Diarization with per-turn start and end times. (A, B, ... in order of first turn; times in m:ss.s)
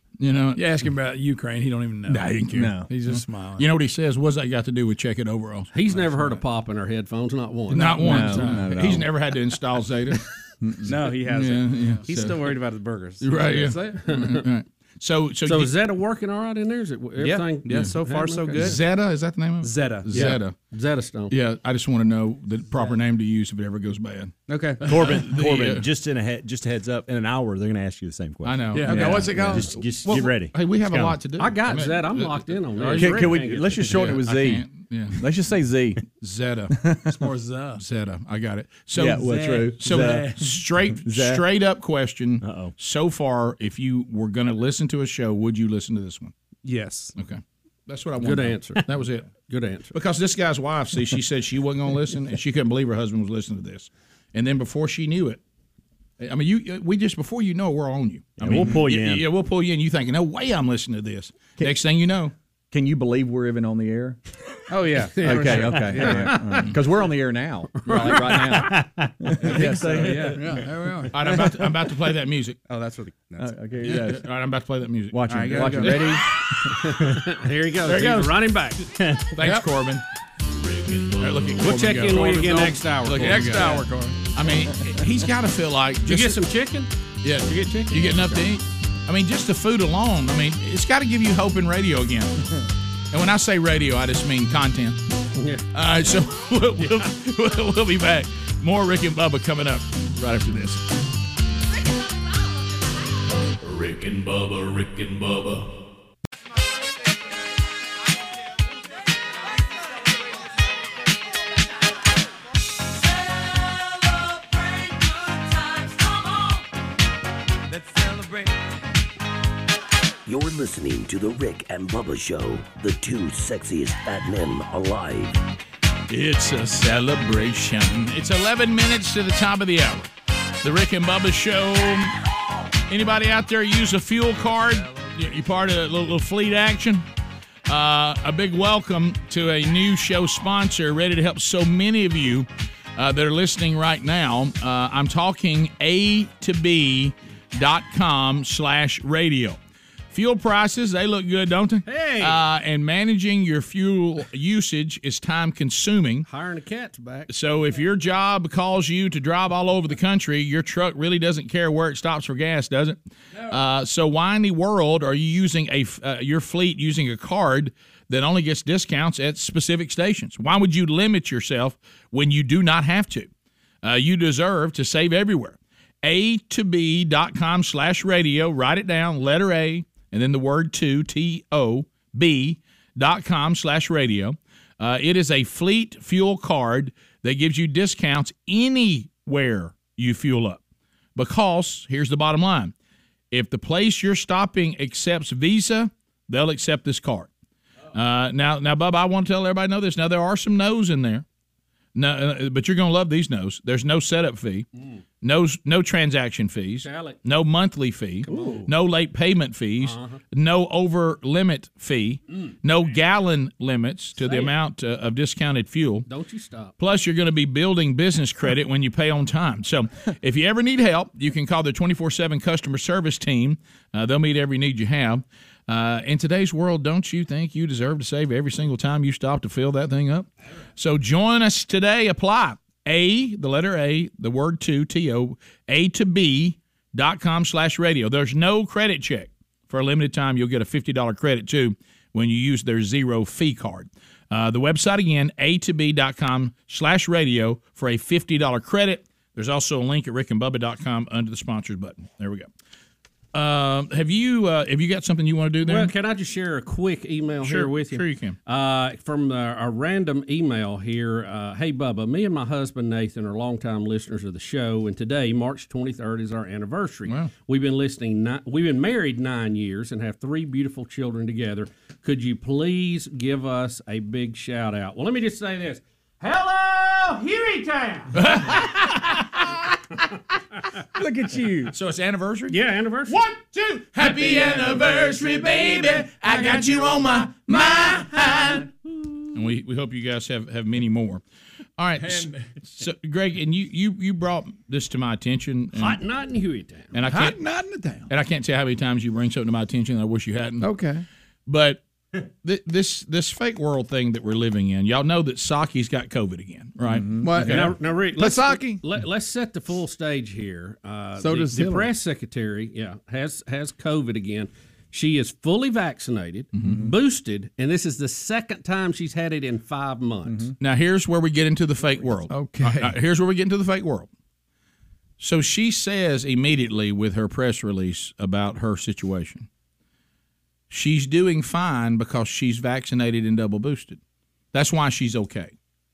0:00.2-0:00.6 A
0:00.5-0:03.7 B
0:02.1-0:05.7 A
0:02.5-0:02.9 C
0:05.7-0:08.6 D
0:07.7-0:10.2 A
0:08.0-0:09.1 C
0:10.6-0:11.0 C
0:10.8-0:12.6 A
0:10.8-0:13.8 E
0:13.2-0:15.7 A
0:13.5-0:13.9 B
0:13.8-0:14.5 D
0:15.4-0:18.8 D
0:17.2-0:19.0 E
0:18.5-0:20.6 A
0:19.6-0:20.4 E
0:20.1-0:21.4 D
0:21.3-0:25.9 A
0:24.5-0:25.1 E
0:24.9-0:31.2 F
0:28.4-0:35.2 A
0:28.7-0:29.8 B
0:28.8-0:29.7 C
0:31.4-0:34.1 D
0:33.0-0:36.0 C
0:36.2-0:37.0 A
0:36.8-0:37.1 C
0:37.0-0:37.8 B
0:37.8-0:46.3 A
0:38.9-0:41.4 C
0:39.1-0:40.5 B
0:42.4-0:42.7 F
0:46.6-0:47.1 E
0:47.2-0:49.3 A
0:48.2-0:48.9 D
0:49.5-0:49.9 D
0:49.9-0:55.4 A
0:56.2-1:02.3 A
0:58.4-0:59.3 F
0:58.4-0:58.8 C
1:02.7-1:04.2 C
1:04.7-1:06.6 E
1:05.1-1:06.6 D
1:05.2-1:10.6 C
1:07.8-1:08.7 D
1:09.4-1:10.6 E
1:09.6-1:11.2 B
1:11.1-1:12.6 A
1:12.6-1:14.0 E
1:13.4-1:14.3 C
1:13.8-1:16.5 A
1:15.1-1:16.8 C
1:15.3-1:16.2 E
1:16.7-1:19.2 D
1:17.8-1:18.6 A
1:19.3-1:20.0 A
1:19.4-1:19.7 B
1:20.6-1:21.7 G
1:21.2-1:26.4 A
1:21.6-1:23.7 D
1:22.2-1:24.2 B
1:26.1-1:26.9 D
1:27.2-1:32.5 A
1:27.4-1:28.4 D
1:33.1-1:35.0 A
1:35.4-1:35.7 D
1:35.7-1:40.9 A
1:43.6-1:45.7 G
2:00.2-2:05.4 H
2:06.1-2:10.1 A
2:10.6-2:12.2 A
2:12.9-2:17.0 A
2:17.7-2:29.6 A
2:30.1-2:36.3 A
2:31.8-2:32.4 D
2:36.3-2:37.3 D
2:37.3-2:53.3 A
2:53.8-3:10.6 A
3:11.2-3:12.7 A
3:13.3-3:17.3 A
3:17.9-3:21.2 A
3:21.9-3:24.6 A
3:25.2-3:36.1 A
3:26.8-3:27.2 D
3:28.2-3:28.7 D
3:29.8-3:30.2 D
3:34.2-3:34.5 D
3:36.1-3:36.7 D
3:36.8-4:12.5 A
4:13.3-4:15.9 A
4:15.6-4:38.2 D
4:17.4-4:18.4 A
4:27.0-4:27.3 A
4:38.1-4:39.4 A
4:41.0-4:41.7 C
4:41.7-4:48.7 A
4:42.5-4:43.2 D
4:44.0-4:44.9 D
4:49.3-4:51.2 A
4:51.8-4:56.0 A
4:52.0-4:52.5 B
4:55.8-4:56.9 D
4:56.9-4:57.4 A
4:57.0-4:58.1 B
4:58.1-5:00.7 A
5:00.6-5:01.0 B
5:01.4-5:01.8 A
5:02.4-5:08.8 A
5:07.0-5:07.2 C
5:07.2-5:08.4 B
5:07.4-5:20.5 D
5:11.2-5:11.9 B
5:16.6-5:16.8 A
5:20.3-5:20.5 C
5:20.6-5:24.1 A
5:22.3-5:23.0 B
5:25.2-5:29.5 A
5:30.7-5:34.0 A
5:34.5-5:35.5 A